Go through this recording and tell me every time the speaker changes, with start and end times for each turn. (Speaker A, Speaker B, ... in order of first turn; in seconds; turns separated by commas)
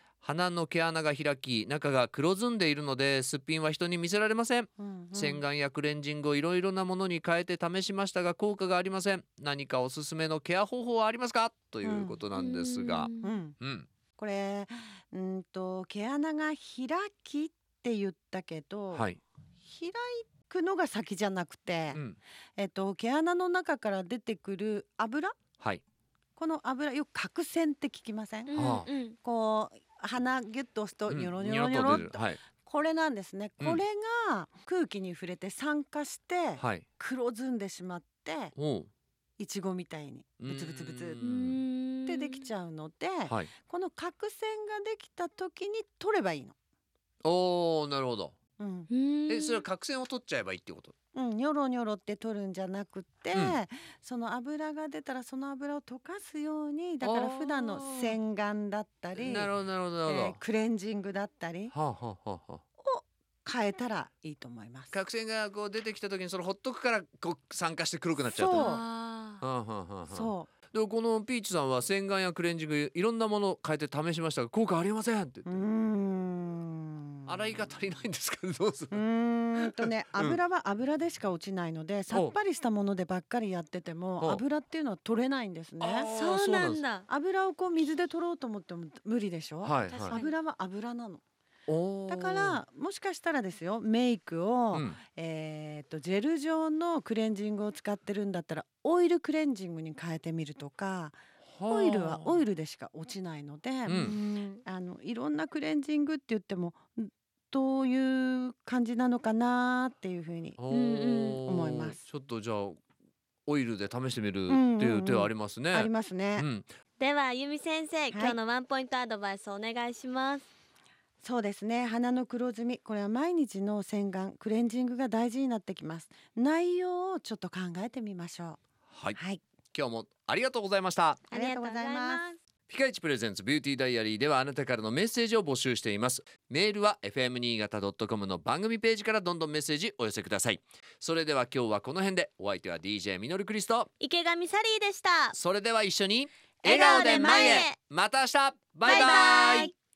Speaker A: 0.2-13.9, Speaker B: 4.8-5.4, Speaker B: 11.8-12.2, Speaker C: 12.3-13.3, Speaker B: 13.2-13.6, Speaker B: 14.2-19.0, Speaker A: 18.9-19.2, Speaker B: 19.6-22.0, Speaker B: 22.6-25.3, Speaker B: 26.4-38.5, Speaker C: 28.5-29.2, Speaker A: 28.5-28.9, Speaker A: 31.1-32.4, Speaker A: 36.6-36.9, Speaker A: 38.5-38.9, Speaker B: 39.4-41.2, Speaker A: 40.4-41.6, Speaker C: 41.2-42.5, Speaker B: 42.0-46.5, Speaker A: 47.2-48.3, Speaker B: 48.6-48.9, Speaker C: 48.9-49.6, Speaker A: 49.3-50.9, Speaker B: 51.1-59.5, Speaker A: 53.3-53.6, Speaker A: 57.0-58.2, Speaker A: 59.1-60.4, Speaker B: 60.0-61.7, Speaker A: 61.7-62.6, Speaker B: 62.8-65.0, Speaker A: 64.9-68.7, Speaker B: 68.2-68.8, Speaker C: 68.6-69.4, Speaker A: 69.4-75.6, Speaker B: 70.1-70.5, Speaker B: 75.5-77.7, Speaker A: 77.2-79.0, Speaker B: 78.9-86.2, Speaker A: 79.6-80.4, Speaker A: 85.8-86.8, Speaker C: 86.1-87.1, Speaker B: 87.1-91.2, Speaker A: 89.6-90.2, Speaker C: 89.9-90.3, Speaker A: 91.7-92.6, Speaker B: 92.1-110.6, Speaker A: 94.7-95.0, Speaker A: 101.4-102.4, Speaker A: 103.8-104.2, Speaker C: 104.0-104.6, Speaker A: 110.6-112.8, Speaker C: 110.7-111.4, Speaker B: 111.4-112.0, Speaker A: 113.5-116.7, Speaker B: 114.5-116.5, Speaker C: 117.0-120.5, Speaker B: 118.1-118.4, Speaker B: 121.2-128.6, Speaker A: 128.9-129.2, Speaker B: 129.2-129.4, Speaker A: 129.7-131.2, Speaker C: 131.3-132.4, Speaker B: 131.3-132.2, Speaker A: 132.7-143.9, Speaker C: 144.0-145.3, Speaker A: 145.3-149.7, Speaker C: 146.6-147.8, Speaker C: 148.8-149.7